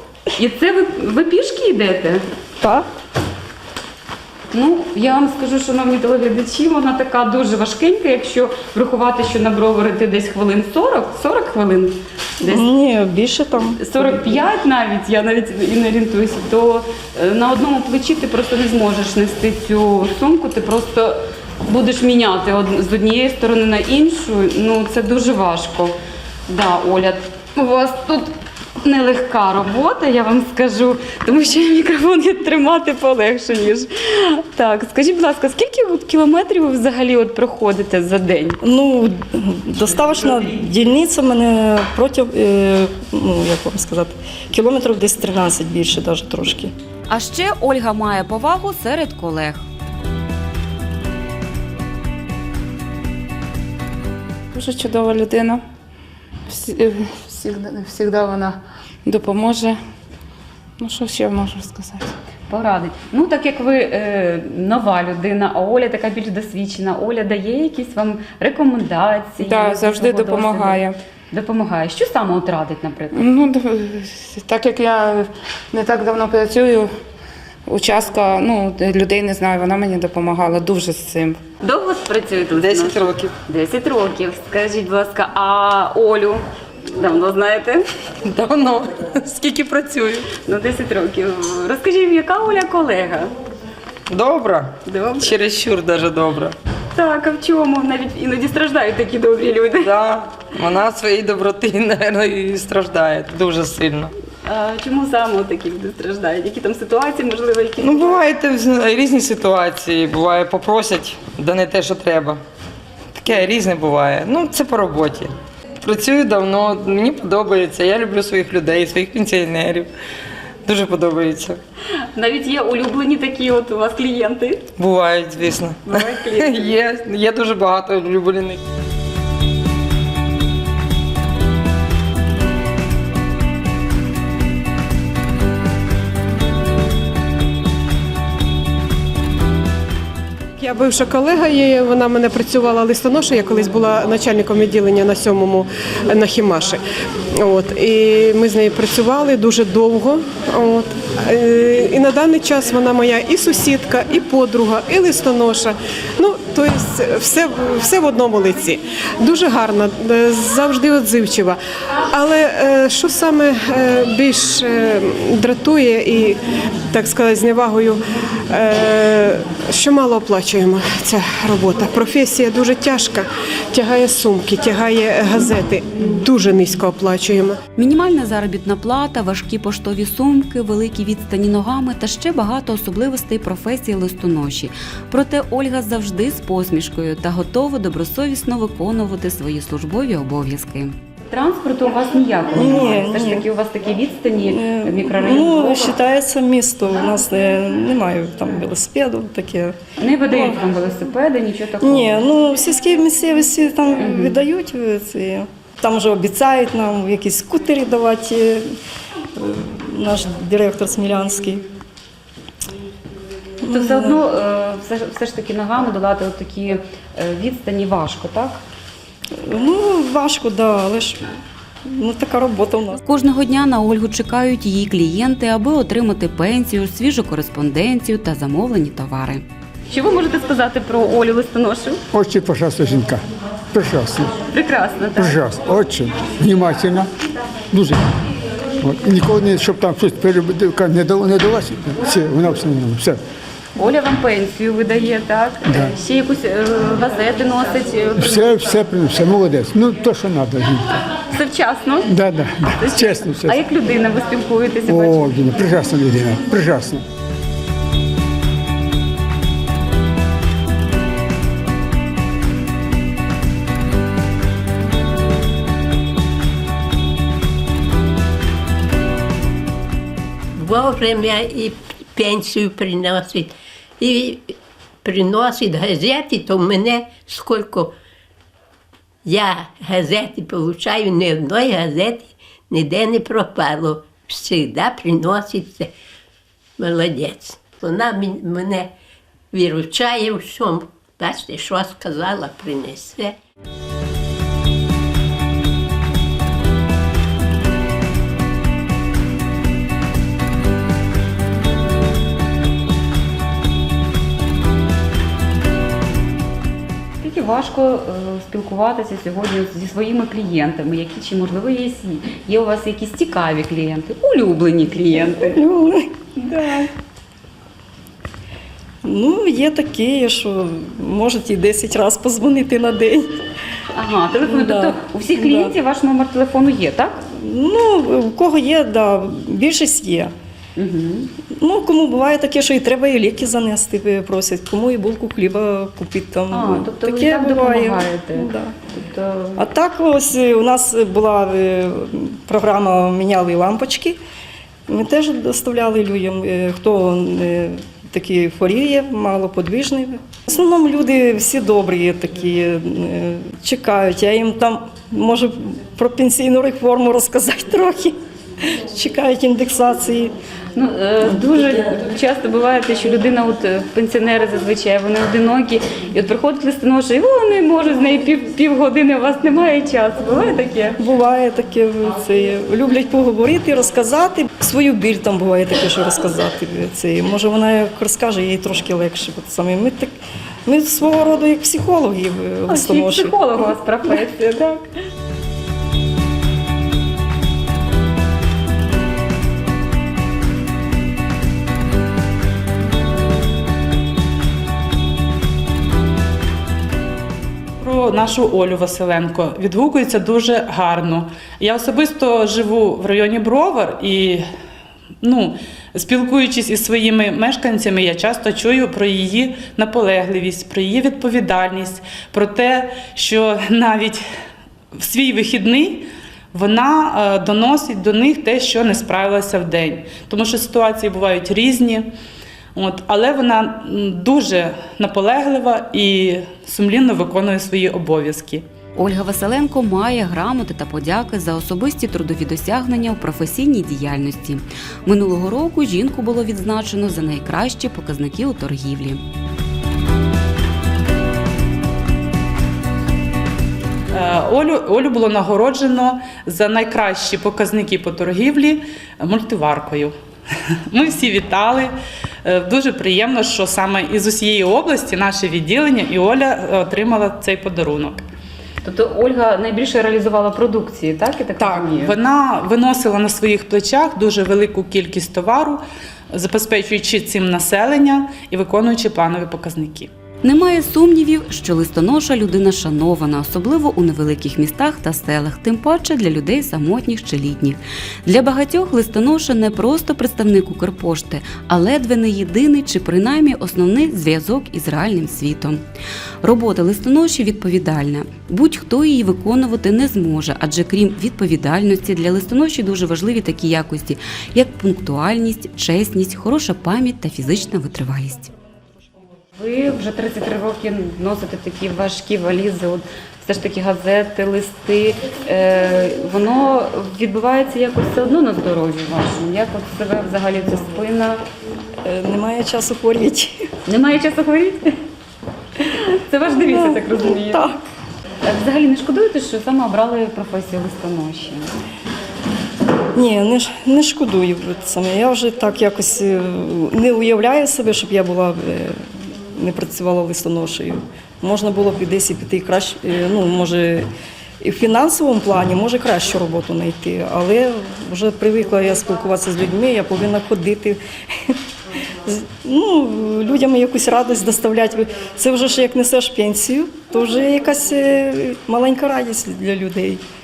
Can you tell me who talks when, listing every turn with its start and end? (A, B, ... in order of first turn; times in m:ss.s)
0:00.4-0:02.2 A
0:02.6-0:02.9 B
0:04.5-0:12.6 A
0:12.4-0:14.2 B
0:13.8-0:26.0 A
0:26.5-0:38.6 A
0:38.6-0:46.7 B
0:47.1-0:49.7 C
0:54.5-0:55.6 D
0:56.5-0:59.8 D
1:00.8-1:02.1 D
1:02.5-1:13.3 A
1:09.4-1:11.0 D
1:13.1-1:16.9 D
1:17.7-1:21.4 D
1:21.6-1:27.9 A
1:22.6-1:23.2 E
1:28.3-1:30.2 E
1:30.4-1:33.3 A
1:34.1-1:36.5 E
1:34.8-1:35.3 A
1:36.9-1:39.9 A
1:39.8-1:44.0 E
1:44.4-1:48.2 A
1:47.8-1:52.4 E
1:53.2-1:55.3 E
1:55.8-1:59.8 E
2:00.6-2:01.5 E
2:02.1-2:04.6 A
2:04.8-2:08.6 E
2:05.8-2:06.8 A
2:20.6-2:26.8 F
2:27.4-2:41.6 F
2:42.1-2:46.4 F
2:46.9-2:48.0 F
2:48.5-2:57.6 F
2:57.8-3:10.9 C
3:11.3-3:15.9 A
3:12.5-3:13.5 B
3:14.4-3:19.8 B
3:20.0-3:22.2 A
3:20.3-3:20.6 B
3:21.8-3:28.6 B
3:24.0-3:24.3 A
3:29.4-3:31.6 B
3:33.6-3:34.2 B
3:33.7-3:38.6 A
3:39.4-3:41.2 B
3:41.9-3:43.0 B
3:43.1-3:49.4 C
3:49.9-3:52.0 A
3:52.1-3:54.3 G
3:54.5-3:55.4 A
3:55.2-3:57.1 G
3:57.7-3:58.1 G
3:58.8-4:03.2 G
4:03.8-4:08.8 A
4:05.6-4:05.9 G
4:08.2-4:10.9 G
4:11.3-4:12.2 A
4:12.0-4:13.6 G
4:12.7-4:15.3 A
4:14.8-4:17.0 G
4:30.5-4:37.9 H
4:39.2-4:45.9 H
4:46.8-4:48.9 H
4:49.5-4:53.4 H
5:07.2-5:15.6 A
5:15.3-5:16.9 B
5:19.0-5:23.3 B
5:23.9-5:27.2 A
5:24.4-5:25.7 B
5:27.3-5:30.3 B
5:30.8-5:31.3 A
5:31.6-5:38.7 B
5:36.5-5:39.6 A
5:39.6-5:44.2 B
5:44.9-6:00.3 B
6:00.7-6:11.0 A
6:11.0-6:20.1 B
6:20.6-6:23.4 B
6:22.7-6:24.8 A
6:37.8-6:44.4 I
6:45.2-6:54.2 I
6:55.0-7:02.1 I
7:02.7-7:08.6 I
7:09.0-7:19.2 C
7:24.1-7:30.1 I
7:30.9-7:31.9 I
7:32.4-7:38.2 I
7:38.8-7:42.2 A
7:41.6-7:50.1 I
7:50.4-8:05.8 C
8:06.4-8:18.5 C
8:19.6-8:31.4 A
8:32.0-8:33.6 B
8:33.8-8:34.9 A
8:35.9-8:37.6 A
8:36.5-8:37.8 B
8:38.4-8:41.7 A
8:43.1-8:54.1 B
8:54.6-9:01.6 B
9:02.2-9:10.2 B